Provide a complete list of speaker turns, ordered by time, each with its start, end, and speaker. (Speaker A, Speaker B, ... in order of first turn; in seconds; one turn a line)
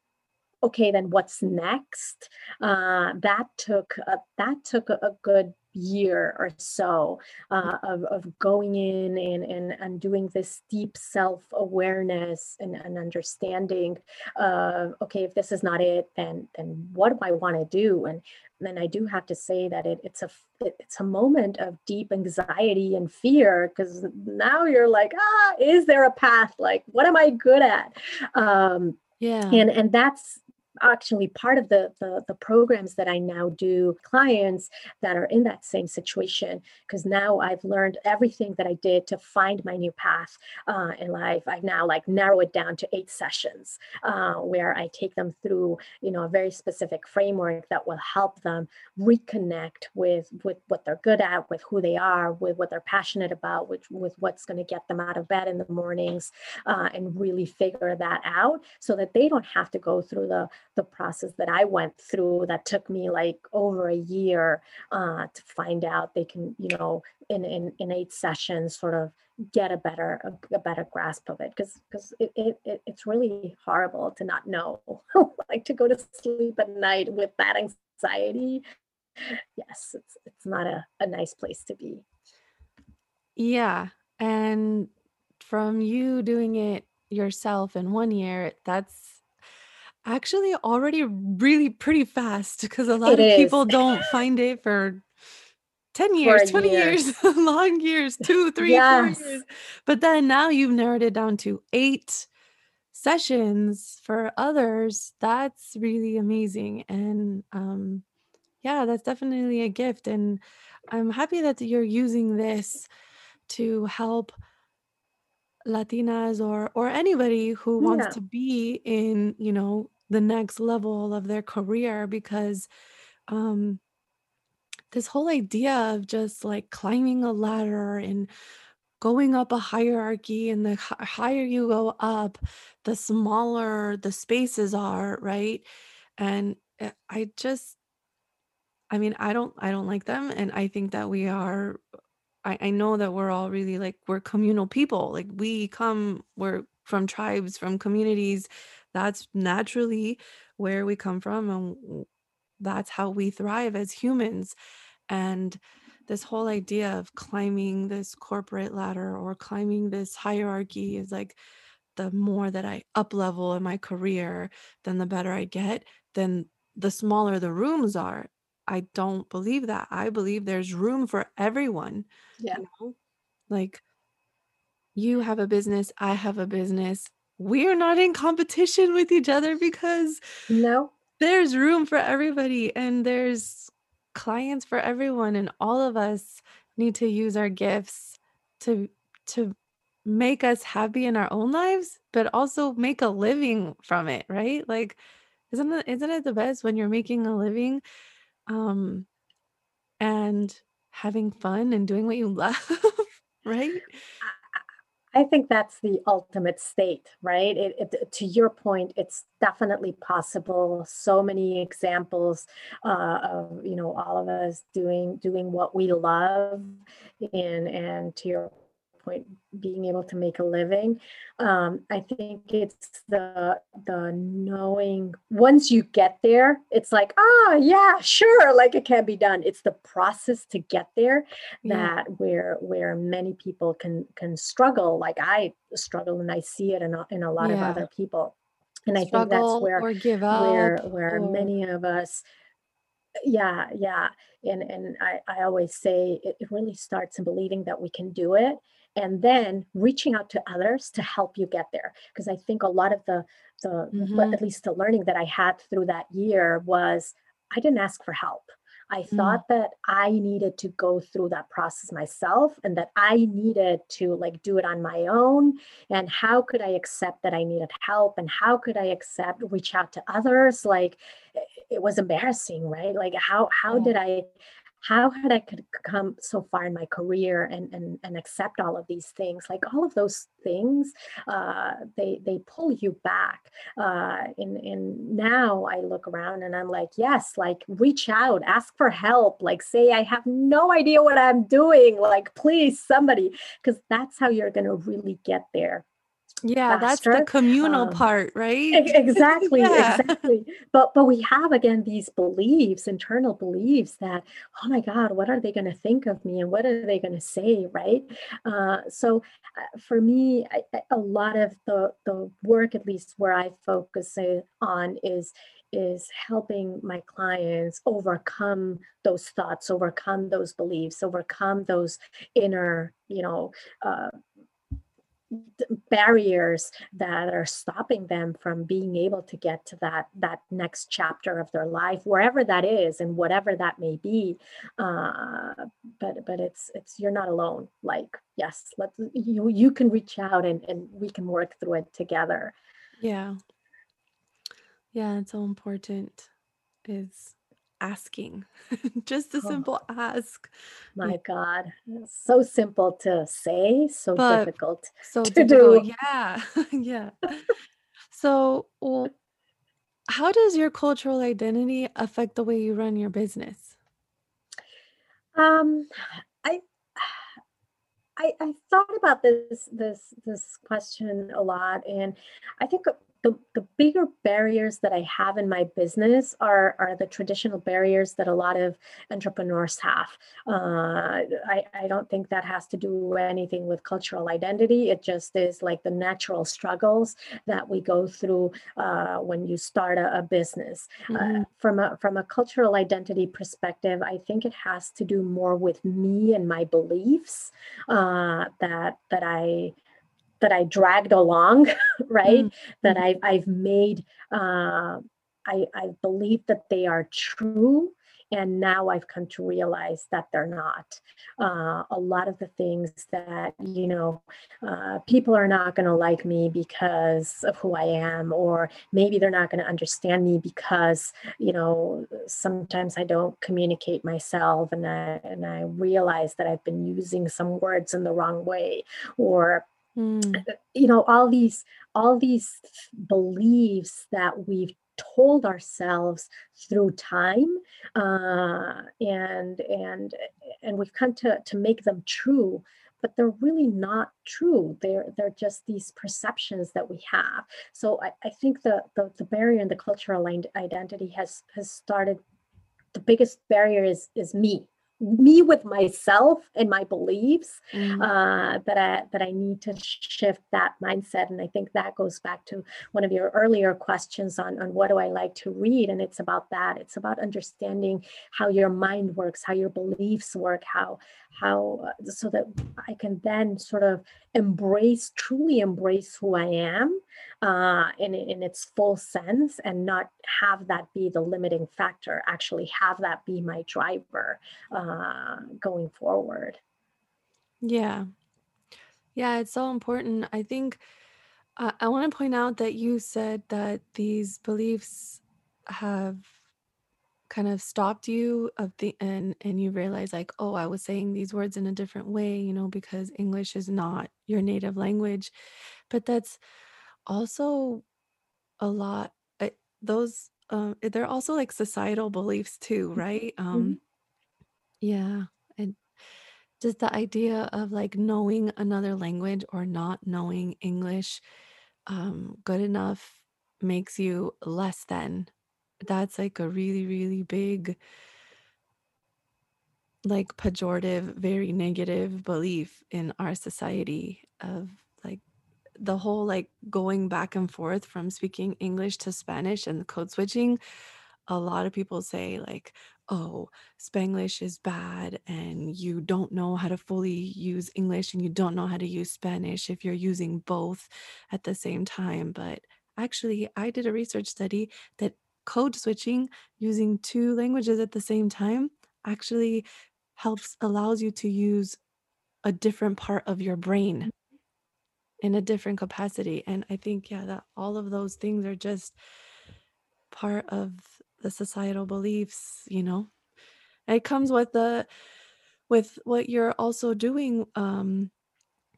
Speaker A: 0.6-29.0
Speaker B: 29.2-29.7
Speaker A: 29.5-78.6
Speaker A: 79.2-82.0
Speaker B: 83.4-89.2
Speaker B: 90.0-95.0
Speaker A: 93.0-94.1
Speaker B: 95.9-102.3
Speaker A: 96.2-97.0
Speaker A: 98.6-99.4
Speaker B: 102.9-108.0
Speaker B: 108.6-112.9
Speaker B: 113.5-114.3
Speaker B: 115.7-122.7
Speaker A: 117.8-118.2
Speaker B: 123.3-123.8
Speaker B: 124.9-128.3
Speaker B: 129.0-135.7
Speaker B: 136.2-137.8
Speaker B: 138.9-141.8
Speaker B: 142.4-152.1
Speaker B: 152.6-154.6
Speaker B: 155.1-161.4
Speaker B: 162.0-173.0
Speaker B: 173.5-173.8
Speaker B: 174.9-180.2
Speaker A: 180.5-180.9
Speaker B: 181.2-195.0
Speaker B: 195.5-197.8
Speaker B: 198.5-199.1
Speaker B: 200.0-203.9
Speaker A: 204.2-204.6
Speaker A: 205.1-238.3
Speaker B: 231.7-231.9
Speaker B: 237.4-237.9
Speaker A: 238.9-242.2
Speaker B: 239.0-241.5
Speaker A: 243.2-274.3
Speaker B: 253.9-254.4
Speaker B: 259.1-259.4
Speaker A: 274.8-295.9
Speaker B: 296.4-300.2
Speaker A: 296.7-298.0
Speaker A: 298.7-324.1
Speaker A: 325.3-342.5
Speaker B: 343.0-343.4
Speaker B: 344.9-346.3
Speaker B: 346.9-351.2
Speaker A: 349.4-349.7
Speaker A: 351.0-355.9
Speaker B: 354.2-354.5
Speaker B: 355.0-357.5
Speaker B: 358.1-359.1
Speaker B: 360.1-363.8
Speaker A: 365.4-365.9
Speaker A: 366.4-367.1
Speaker A: 368.2-399.8
Speaker B: 391.1-391.5
Speaker A: 400.4-429.7
Speaker B: 402.3-403.0
Speaker B: 430.0-430.5
Speaker A: 430.4-452.2
Speaker A: 452.9-486.6
Speaker B: 457.7-458.1
Speaker B: 487.6-488.1
Speaker B: 489.1-490.8
Speaker B: 491.6-496.4
Speaker B: 497.3-505.3
Speaker B: 505.9-506.4
Speaker B: 507.1-507.9
Speaker B: 508.6-513.8
Speaker A: 513.5-513.8
Speaker B: 514.8-515.8
Speaker B: 516.6-521.2
Speaker B: 521.9-525.3
Speaker B: 525.8-527.8
Speaker B: 530.0-535.2
Speaker B: 535.8-540.6
Speaker B: 541.3-561.8
Speaker B: 562.5-564.1
Speaker B: 565.2-569.0
Speaker B: 570.1-573.1
Speaker B: 573.9-574.9
Speaker B: 575.7-578.1